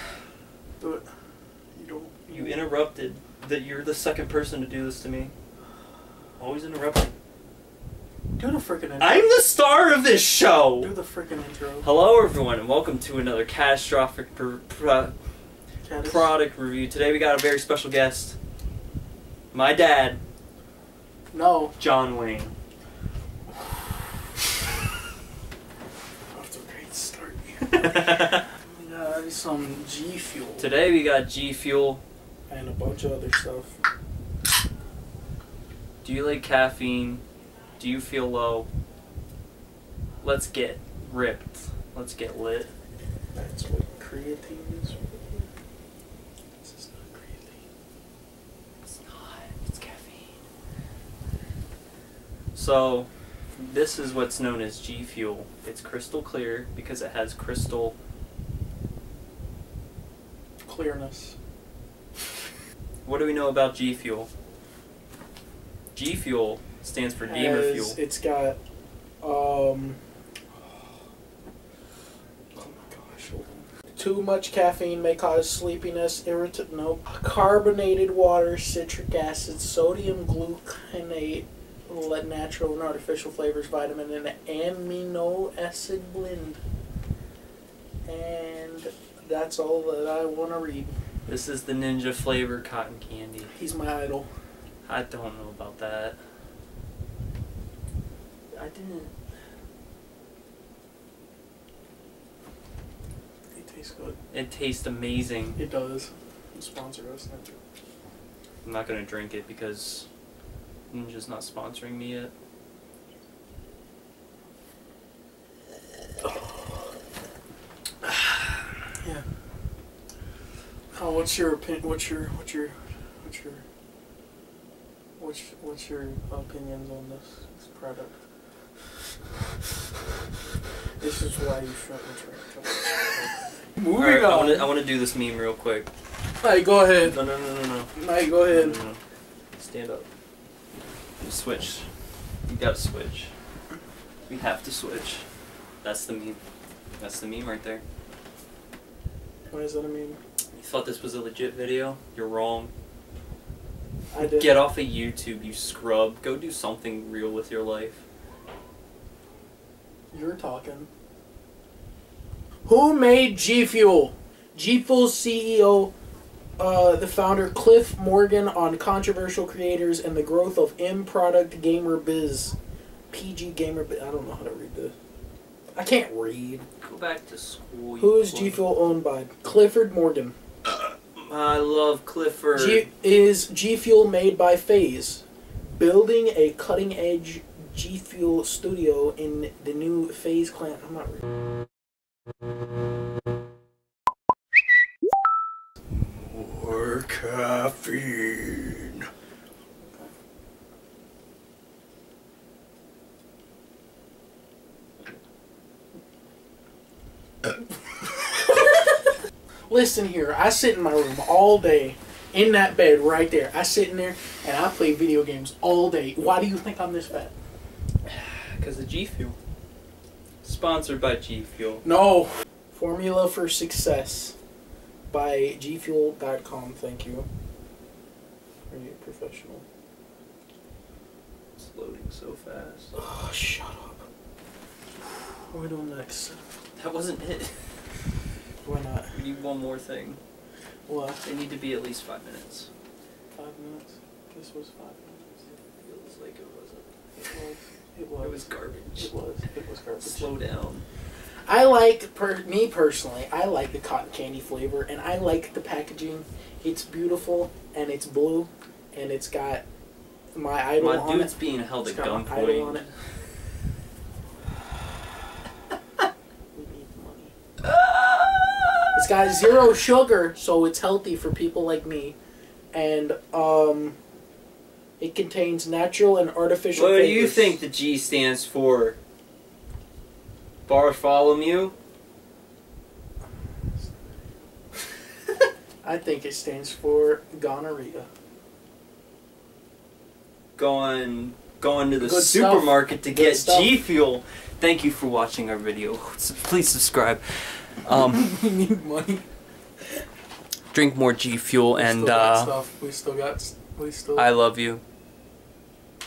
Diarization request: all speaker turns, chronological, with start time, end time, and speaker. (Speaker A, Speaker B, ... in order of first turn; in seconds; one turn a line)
Speaker A: 0.8-1.1
Speaker A: 1.7-2.6
Speaker B: 2.3-5.3
Speaker B: 6.4-7.1
Speaker A: 8.4-9.3
Speaker B: 9.0-10.9
Speaker A: 10.8-11.9
Speaker B: 11.8-15.2
Speaker A: 15.8-16.3
Speaker B: 16.0-18.4
Speaker B: 19.5-20.2
Speaker A: 21.3-21.8
Speaker B: 21.8-22.5
Speaker A: 26.3-30.7
Speaker B: 27.8-28.4
Speaker B: 30.6-32.0
Speaker A: 32.5-33.8
Speaker B: 36.0-37.2
Speaker B: 37.8-38.7
Speaker B: 40.2-42.7
Speaker A: 43.4-45.5
Speaker A: 46.6-47.6
Speaker B: 48.9-50.4
Speaker B: 52.5-58.0
Speaker A: 60.6-61.4
Speaker B: 63.0-64.3
Speaker B: 66.0-68.0
Speaker A: 67.2-68.6
Speaker A: 69.2-70.0
Speaker A: 72.5-86.6
Speaker A: 88.1-91.0
Speaker B: 91.3-93.5
Speaker A: 93.5-94.3
Speaker B: 94.8-96.2
Speaker B: 98.5-99.1
Speaker A: 103.5-104.2
Speaker B: 104.3-105.6
Speaker A: 105.6-107.6
Speaker B: 108.6-110.1
Speaker B: 110.9-112.3
Speaker A: 116.2-116.9
Speaker A: 120.9-123.6
Speaker A: 125.2-128.2
Speaker A: 131.0-134.7
Speaker B: 134.0-135.9
Speaker A: 136.4-137.2
Speaker B: 137.0-137.9
Speaker A: 137.9-138.8
Speaker B: 138.5-139.0
Speaker B: 139.6-140.1
Speaker B: 141.2-141.9
Speaker B: 142.5-143.3
Speaker B: 144.3-145.3
Speaker B: 145.8-146.4
Speaker B: 147.0-147.8
Speaker A: 149.5-150.2
Speaker B: 150.5-152.7
Speaker A: 154.1-154.7
Speaker B: 154.2-158.0
Speaker A: 160.1-160.9
Speaker A: 162.7-165.9
Speaker A: 166.6-172.6
Speaker A: 173.1-174.9
Speaker A: 175.8-176.7
Speaker B: 176.8-178.6
Speaker A: 178.0-180.3
Speaker B: 180.7-182.9
Speaker A: 182.6-191.2
Speaker C: 196.0-198.9
Speaker A: 199.8-200.1
Speaker A: 209.7-217.3
Speaker B: 218.1-219.4
Speaker B: 220.4-221.8
Speaker A: 221.8-224.4
Speaker A: 225.1-227.3
Speaker A: 228.7-229.7
Speaker B: 231.6-233.0
Speaker A: 233.0-234.1
Speaker A: 235.5-236.4
Speaker B: 236.8-237.8
Speaker A: 238.6-239.2
Speaker B: 239.1-240.2
Speaker A: 240.9-241.2
Speaker B: 241.2-242.7
Speaker A: 243.3-245.5
Speaker B: 245.6-247.3
Speaker A: 247.2-250.3
Speaker B: 248.2-249.1
Speaker B: 250.0-250.8
Speaker A: 251.5-259.6
Speaker A: 260.3-262.9
Speaker B: 260.8-262.9
Speaker A: 266.5-267.3
Speaker B: 267.6-268.8
Speaker A: 268.9-272.2
Speaker A: 272.7-274.0
Speaker A: 275.0-277.6
Speaker B: 276.7-279.0
Speaker B: 280.7-281.7
Speaker A: 285.8-288.1
Speaker B: 290.6-298.3
Speaker A: 292.0-293.8
Speaker A: 297.9-299.2
Speaker B: 300.7-302.5
Speaker A: 301.8-304.3
Speaker B: 304.2-304.8